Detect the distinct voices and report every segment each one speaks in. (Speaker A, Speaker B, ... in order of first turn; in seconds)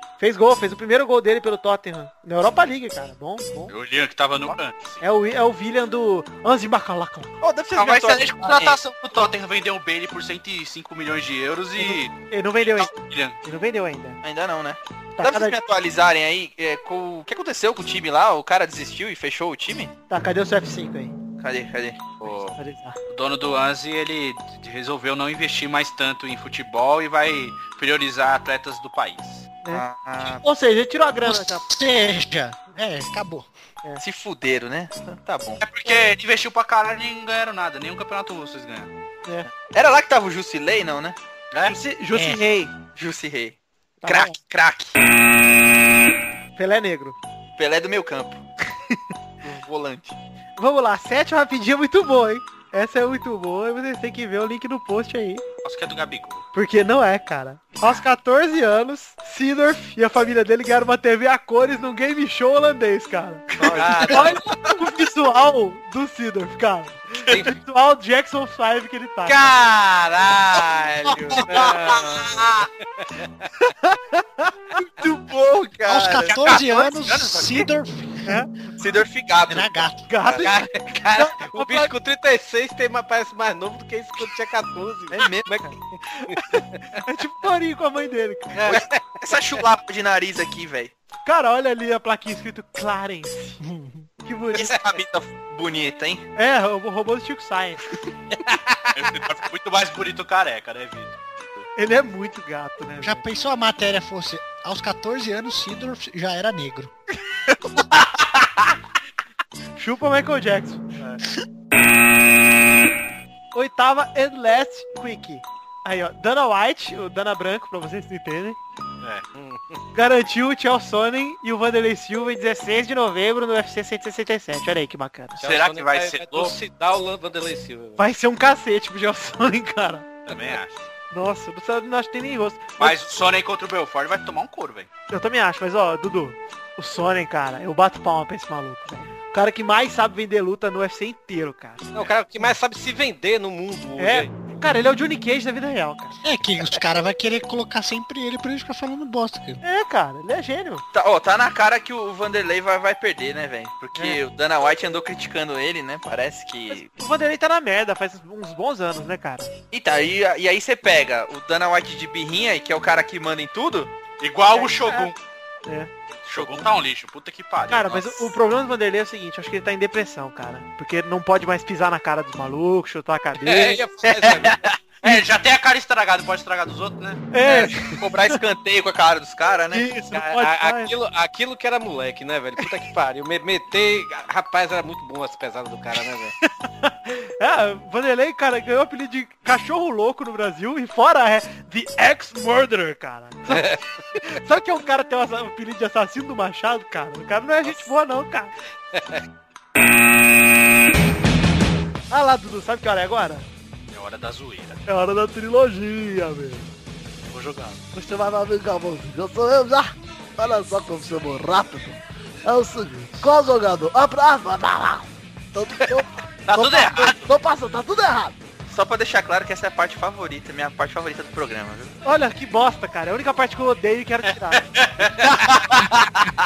Speaker A: 0.2-3.7, 5.0-7.3, 11.8-12.9, 13.4-14.2, 15.2-15.6, 20.1-21.1, 22.6-23.0, 29.6-31.6, 41.6-42.8, 44.0-44.4, 46.6-47.2, 50.6-55.4, 56.5-69.5, 73.8-74.8, 78.3-78.5, 80.1-81.9, 85.6-88.7, 91.2-93.6, 94.2-94.7, 96.4-97.9, 101.8-103.2, 109.8-110.8, 113.5-118.6, 119.9-125.4, 128.0-130.1, 131.1-133.0, 135.1-142.0, 144.0-146.2, 149.6-150.8, 156.7-159.5, 164.5-165.1, 167.7-173.8, 177.3-178.4, 179.7-180.9, 186.4-198.5, 202.1-203.5, 204.9-206.7, 222.1-224.7
Speaker B: 3.7-5.0, 7.8-13.4, 22.2-22.6, 23.1-29.5, 35.6-38.9, 55.6-56.5, 63.7-64.4, 69.3-71.7, 76.3-77.4, 80.9-81.3, 98.9-101.7, 125.4-126.5, 130.3-130.8, 132.8-134.9, 164.2-165.2, 166.3-168.3, 175.0-177.2, 203.9-204.8, 207.3-207.8, 216.4-217.3, 224.6-226.3
Speaker C: 7.4-8.8, 14.2-19.9, 21.4-22.2, 29.7-30.4, 34.0-35.6, 39.5-41.2, 42.9-45.0, 47.6-48.4, 49.4-50.2, 63.6-64.7, 71.3-72.5, 74.9-76.7, 78.8-80.5, 85.1-85.5, 88.7-90.9, 94.5-96.2, 150.9-156.9, 159.7-163.9, 177.4-180.0, 218.7-221.9
Speaker D: 31.2-33.5, 42.1-42.4, 75.8-78.5, 79.5-80.1, 93.6-94.1, 103.0-106.9, 146.2-149.6
Speaker E: 63.6-64.4, 71.5-72.1, 81.4-85.7, 88.6-89.1, 119.3-119.8, 125.4-128.0, 141.9-144.3, 173.4-174.6, 180.1-186.3, 193.5-193.9, 198.9-199.2
Speaker F: 207.9-218.4